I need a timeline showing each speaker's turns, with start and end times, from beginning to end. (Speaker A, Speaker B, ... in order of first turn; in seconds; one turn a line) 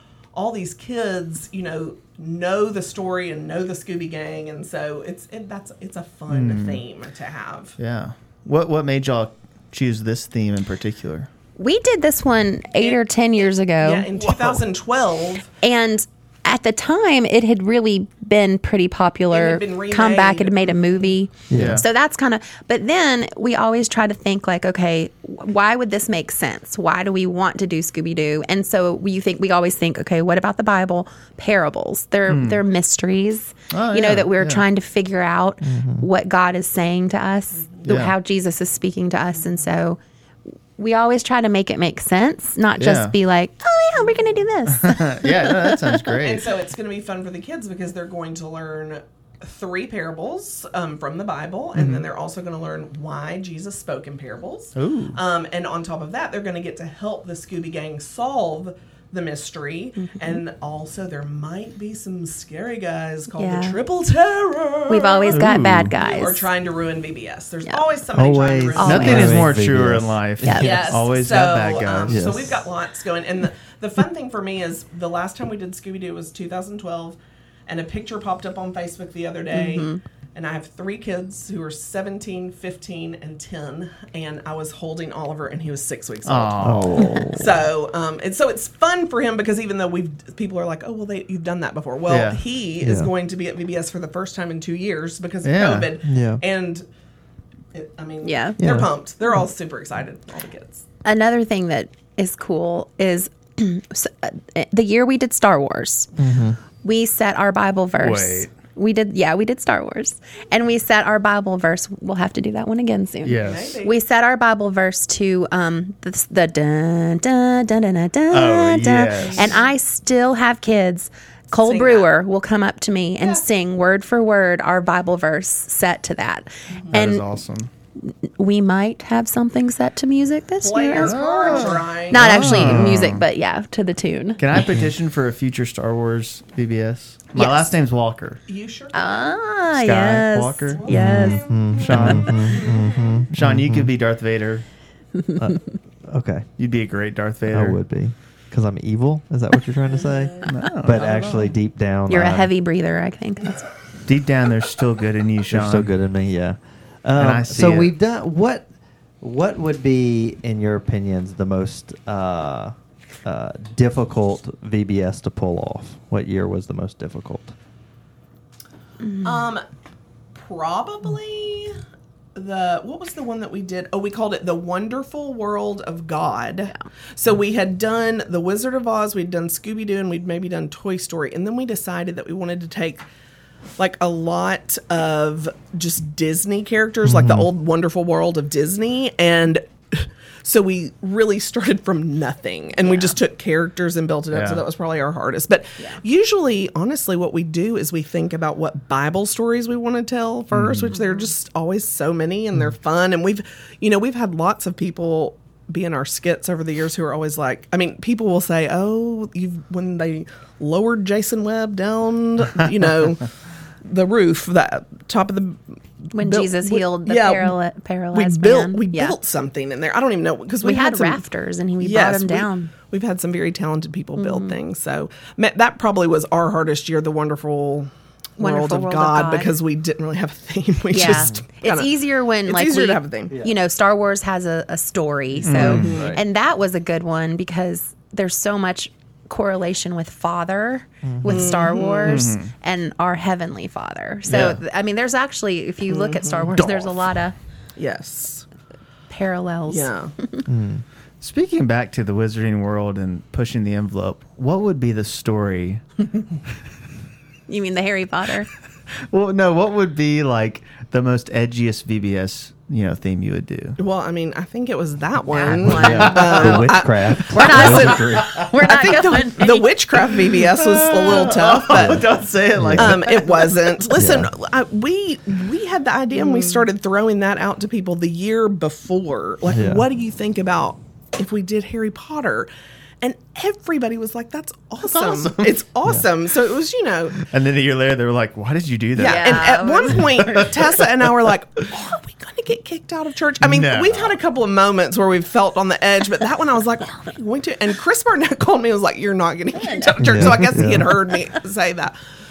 Speaker A: 0.3-7.7
Speaker B: 6.3-6.8
Speaker B: 7.8-11.3
Speaker C: 11.6-14.1
Speaker A: 12.8-15.5
Speaker B: 14.2-14.6
Speaker C: 15.6-40.0
Speaker A: 19.3-21.1
Speaker D: 21.5-21.8
Speaker B: 21.5-21.8
Speaker B: 32.3-32.6
Speaker B: 33.7-34.6
Speaker D: 35.6-36.1
Speaker A: 37.6-37.9
Speaker B: 37.9-38.1
Speaker C: 40.8-46.2
Speaker B: 42.8-43.1
Speaker B: 44.7-46.5
Speaker A: 46.2-69.5
Speaker B: 51.7-52.0
Speaker B: 54.8-55.2
Speaker C: 60.0-60.4
Speaker C: 63.4-63.8
Speaker C: 64.9-66.5
Speaker B: 65.3-65.9
Speaker D: 68.1-71.0
Speaker C: 68.7-69.4
Speaker B: 68.8-72.3
Speaker C: 70.4-70.7
Speaker A: 70.6-96.8
Speaker D: 72.1-72.7
Speaker C: 79.5-80.0
Speaker B: 86.2-87.1
Speaker D: 86.6-87.5
Speaker C: 87.0-87.3
Speaker B: 92.1-92.4
Speaker D: 92.8-93.1
Speaker B: 95.4-95.9
Speaker D: 96.0-96.4
Speaker A: 97.7-100.8
Speaker C: 98.2-98.6
Speaker D: 98.6-98.9
Speaker C: 101.0-106.1
Speaker D: 106.2-106.6
Speaker C: 106.8-127.2
Speaker B: 108.0-108.5
Speaker B: 113.2-113.8
Speaker A: 113.4-114.0
Speaker B: 118.3-119.6
Speaker A: 119.2-119.6
Speaker A: 121.6-122.1
Speaker B: 126.9-127.7
Speaker C: 128.0-134.4
Speaker A: 130.6-132.8
Speaker B: 131.0-133.2
Speaker B: 134.4-138.4
Speaker D: 134.5-134.9
Speaker C: 137.3-137.7
Speaker A: 138.5-139.4
Speaker C: 138.9-141.4
Speaker B: 139.7-140.9
Speaker A: 140.8-143.3
Speaker D: 140.9-143.9
Speaker B: 141.8-144.7
Speaker D: 145.4-146.5
Speaker B: 146.6-147.8
Speaker D: 147.5-152.5
Speaker B: 150.5-151.2
Speaker A: 150.9-151.5
Speaker C: 152.1-153.6
Speaker B: 154.1-155.9
Speaker D: 155.5-158.7
Speaker B: 157.2-157.9
Speaker D: 159.2-167.5
Speaker C: 169.0-169.4
Speaker A: 169.2-169.6
Speaker A: 170.3-171.8
Speaker A: 172.3-183.0
Speaker A: 183.8-213.3
Speaker D: 187.0-187.5
Speaker C: 192.8-193.2
Speaker B: 194.3-194.6
Speaker B: 200.5-200.9
Speaker C: 200.9-201.2
Speaker A: 213.8-215.6
Speaker A: 216.1-217.6
Speaker C: 216.1-219.2
Speaker A: 218.1-221.2
Speaker C: 220.6-222.7
Speaker A: 221.8-231.9
Speaker C: 224.2-224.6
Speaker C: 228.4-229.5
Speaker C: 230.9-247.3
Speaker A: 232.4-233.4
Speaker B: 235.4-236.0
Speaker D: 235.5-236.2
Speaker A: 235.5-236.2
Speaker D: 241.0-241.5
Speaker A: 241.2-242.3
Speaker B: 242.0-242.5
Speaker B: 244.3-244.6
Speaker A: 245.9-246.4
Speaker B: 246.5-246.9
Speaker A: 247.8-248.4
Speaker C: 249.1-250.4
Speaker A: 249.7-250.1
Speaker D: 250.4-250.8
Speaker B: 251.2-255.8
Speaker C: 257.5-258.5
Speaker B: 259.1-263.8
Speaker A: 263.8-272.1
Speaker C: 265.3-266.2
Speaker D: 265.6-268.8
Speaker B: 265.8-268.5
Speaker C: 267.3-269.7
Speaker B: 270.5-273.5
Speaker D: 271.7-272.0
Speaker D: 272.5-273.0
Speaker A: 272.8-282.5
Speaker D: 273.9-274.3
Speaker D: 279.5-279.8
Speaker A: 283.0-287.2
Speaker B: 284.9-285.6
Speaker B: 287.2-290.5
Speaker A: 288.9-301.9
Speaker C: 289.0-290.5
Speaker B: 293.4-294.1
Speaker C: 299.6-300.3
Speaker D: 300.0-300.9